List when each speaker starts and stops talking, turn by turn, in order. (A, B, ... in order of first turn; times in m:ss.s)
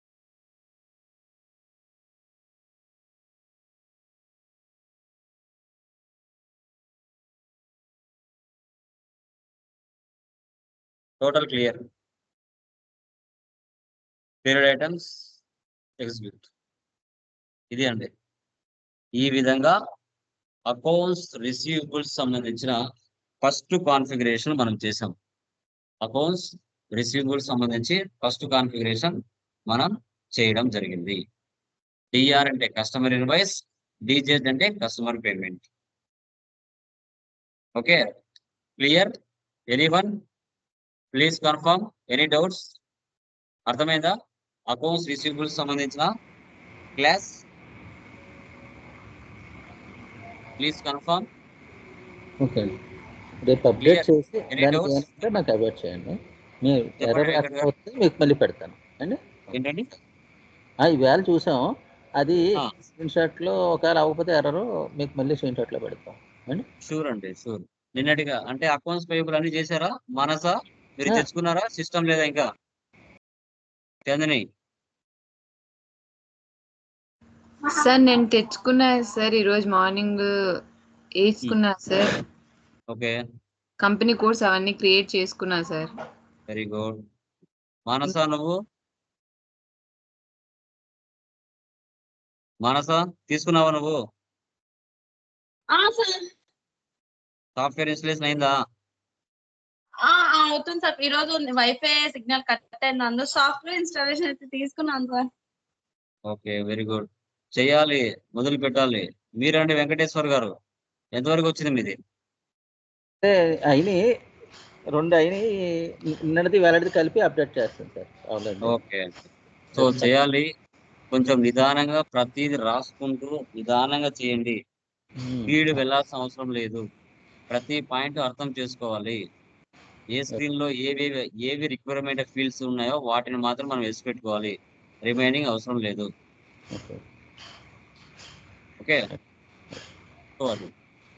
0:11.2-0:11.8 A
0:14.4-0:15.1 A
0:16.0-0:16.5 A
0:17.7-0:18.1 A
0:19.2-0:19.8 A
0:20.7-0:22.8 A
0:23.4-0:25.2 A
0:26.0-0:29.2 A
0:29.7-0:31.2 A
0:32.1-0:35.7 A
0:37.8-0:38.0 A
0:38.8-0:39.1 A
0:39.7-0:40.1 A
0:41.1-0:42.8 A
0:43.7-0:44.1 A
0:44.7-0:46.1 A
0:47.0-0:47.4 A
0:50.6-0:51.3 A
0:52.4-0:52.7 B
0:53.4-0:59.4 B
0:53.8-0:55.3 A
0:57.0-0:57.7 A
0:59.5-0:59.9 A
1:00.8-1:02.5 B
1:03.0-1:06.6 B
1:06.8-1:12.5 A
1:14.1-1:14.4 A
1:17.8-1:20.3 C
1:21.2-1:22.2 C
1:22.9-1:23.2 A
1:23.8-1:25.9 C
1:26.5-1:27.0 A
1:27.9-1:28.6 A
1:32.6-1:34.0 A
1:35.7-1:36.2 D
1:37.6-1:38.5 A
1:40.1-1:45.3 D
1:46.3-1:50.5 A
1:51.2-1:52.0 A
1:53.2-1:54.0 B
1:55.0-1:55.5 B
1:56.1-1:58.8 B
1:58.6-1:59.2 A
1:59.8-2:00.1 B
1:59.8-2:00.5 A
2:01.1-2:04.6 A
2:05.2-2:05.8 B
2:05.5-2:06.8 A
2:07.5-2:09.2 A
2:10.1-2:16.1 A
2:16.7-2:17.0 B
2:18.8-2:19.1 A
2:20.4-2:20.7 A